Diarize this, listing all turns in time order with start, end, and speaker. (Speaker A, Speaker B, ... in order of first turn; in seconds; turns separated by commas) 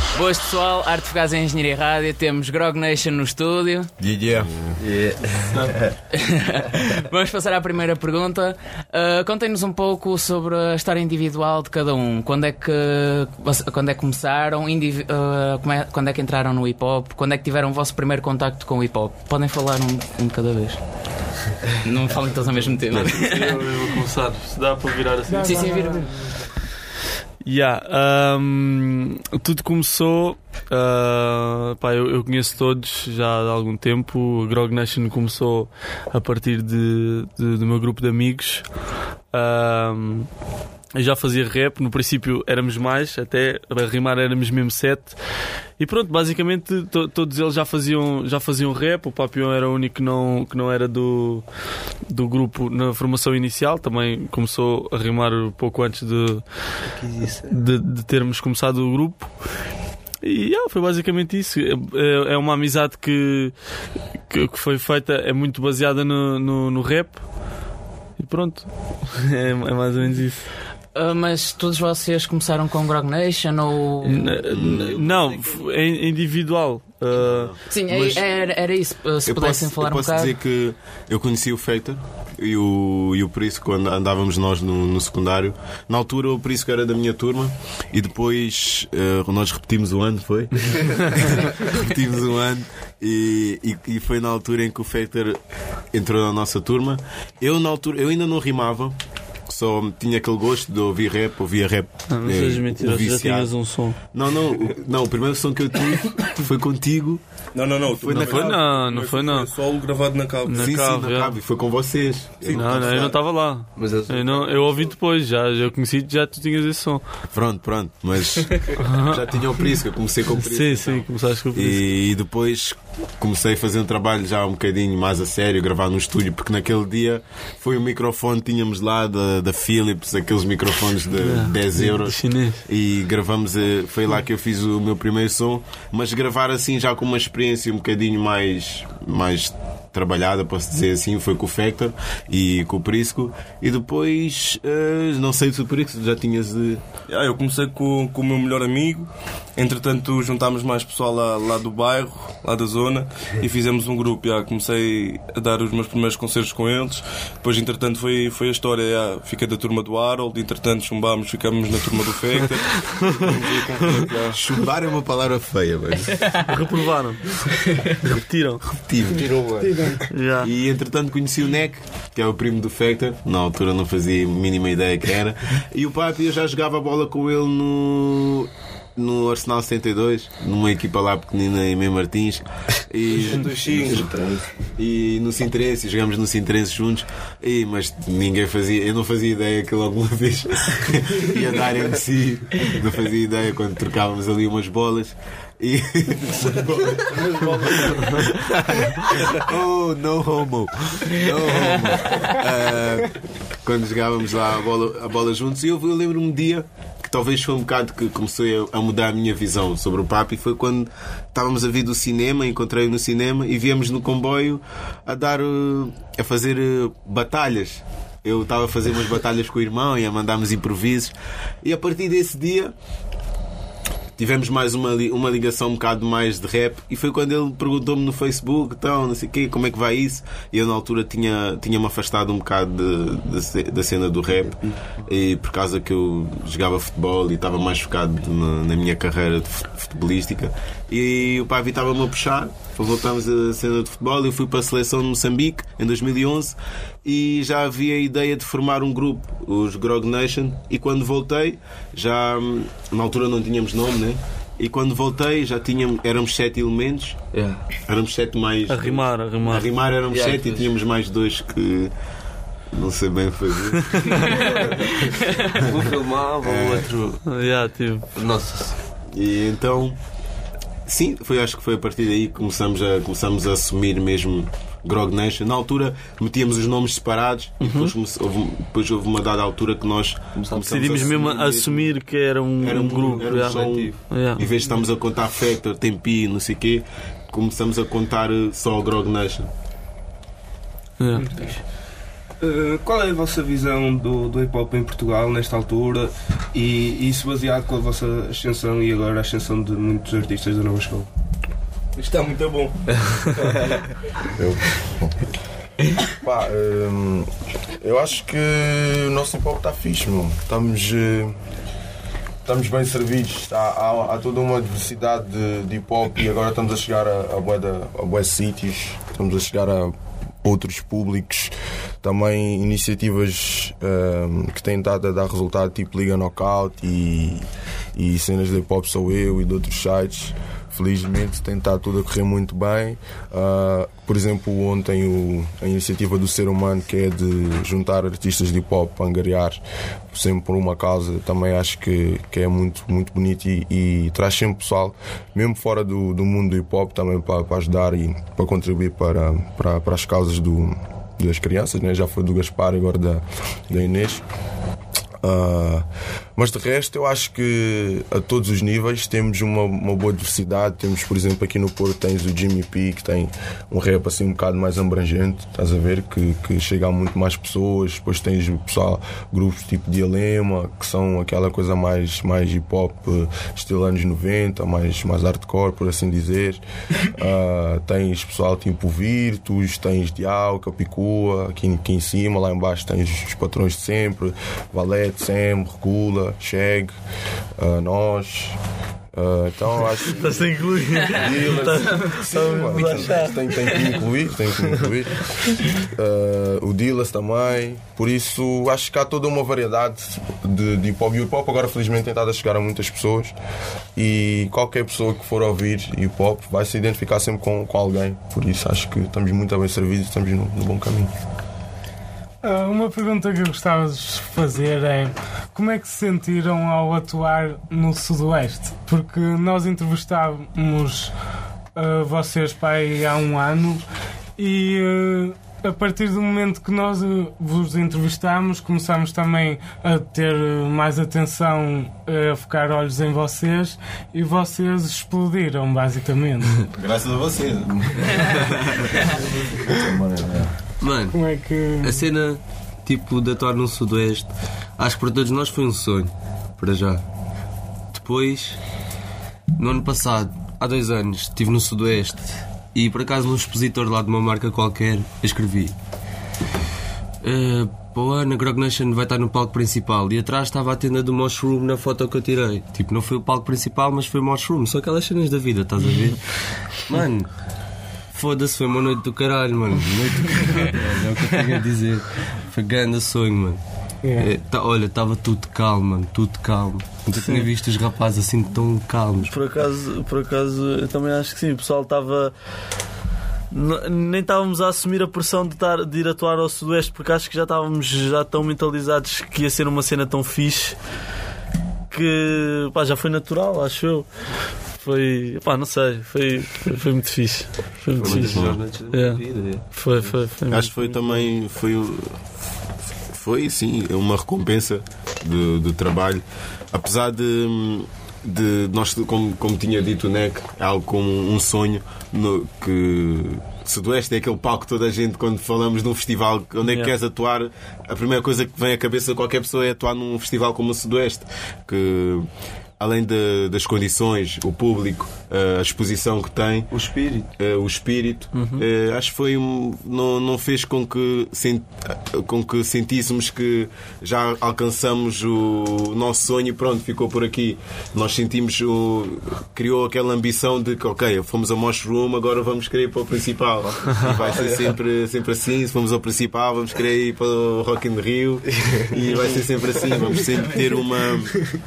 Speaker A: 0.1-3.9, Speaker B: 4.0-4.7, Speaker C: 4.8-5.7, Speaker A: 6.1-20.8, Speaker A: 21.8-23.5, Speaker D: 22.9-26.0, Speaker E: 25.3-26.1, Speaker A: 25.4-26.1, Speaker D: 27.4-38.7, Speaker D: 39.3-40.3, Speaker D: 40.9-45.1, Speaker D: 45.8-51.5, Speaker D: 52.1-56.4, Speaker C: 56.8-57.6, Speaker D: 57.5-59.3, Speaker D: 60.2-63.5, Speaker D: 64.3-67.2, Speaker D: 68.2-70.5, Speaker A: 70.9-74.4, Speaker D: 74.0-77.5, Speaker B: 74.5-75.3, Speaker B: 77.1-78.2, Speaker A: 77.7-80.3, Speaker B: 79.2-95.4, Speaker B: 95.9-98.9, Speaker B: 99.5-107.2, Speaker D: 102.1-104.0, Speaker F: 107.5-110.8, Speaker B: 107.9-108.5, Speaker D: 108.2-109.5, Speaker D: 110.5-111.3, Speaker B: 110.5-112.9, Speaker F: 112.4-113.2, Speaker D: 112.4-117.0, Speaker C: 113.8-114.5, Speaker B: 117.3-146.8, Speaker D: 118.8-119.2, Speaker D: 120.3-121.8, Speaker D: 131.2-132.6, Speaker F: 147.1-164.4, Speaker B: 164.3-166.4, Speaker D: 166.3-168.6, Speaker B: 168.7-169.3, Speaker C: 169.1-169.8, Speaker E: 169.6-170.0, Speaker D: 170.1-170.5, Speaker B: 170.3-184.1, Speaker B: 184.8-222.7, Speaker B: 224.2-257.2, Speaker C: 257.3-257.6, Speaker B: 257.9-261.9, Speaker D: 258.7-259.7, Speaker C: 260.1-260.7, Speaker B: 262.7-264.4, Speaker D: 263.9-264.2, Speaker C: 264.2-267.2, Speaker D: 267.2-268.1, Speaker C: 268.1-268.8, Speaker B: 269.1-270.0, Speaker B: 270.9-281.9, Speaker D: 277.6-277.9, Speaker C: 280.3-281.2, Speaker D: 280.6-284.4, Speaker B: 282.6-289.5, Speaker C: 283.0-284.0, Speaker D: 291.0-291.4, Speaker G: 292.4-301.1, Speaker G: 302.0-302.7, Speaker H: 304.4-305.1, Speaker H: 306.1-307.3, Speaker H: 307.8-311.4, Speaker H: 312.4-354.2, Speaker H: 355.2-386.9, Speaker H: 387.6-388.6, Speaker H: 389.1-403.3, Speaker D: 390.1-393.9, Speaker H: 403.9-411.1, Speaker E: 412.4-421.1, Speaker E: 421.8-423.8, Speaker E: 424.4-436.6, Speaker B: 436.7-438.5, Speaker H: 439.7-440.5, Speaker C: 440.8-441.2, Speaker E: 441.1-442.1, Speaker C: 441.8-447.0, Speaker C: 447.9-448.6, Speaker C: 449.6-455.7, Speaker C: 457.2-466.2, Speaker C: 466.8-467.3, Speaker C: 468.1-473.6, Speaker E: 474.0-474.3, Speaker C: 474.2-479.5, Speaker D: 477.1-477.5, Speaker D: 479.3-482.3, Speaker D: 483.5-490.8, Speaker D: 491.9-494.1, Speaker D: 494.8-501.2, Speaker C: 497.9-500.2, Speaker B: 498.0-498.6, Speaker B: 500.5-502.2, Speaker B: 503.1-522.3, Speaker D: 516.6-516.9, Speaker B: 522.8-526.7, Speaker C: 526.7-527.3, Speaker B: 527.4-551.3, Speaker D: 528.3-528.6, Speaker C: 543.8-544.8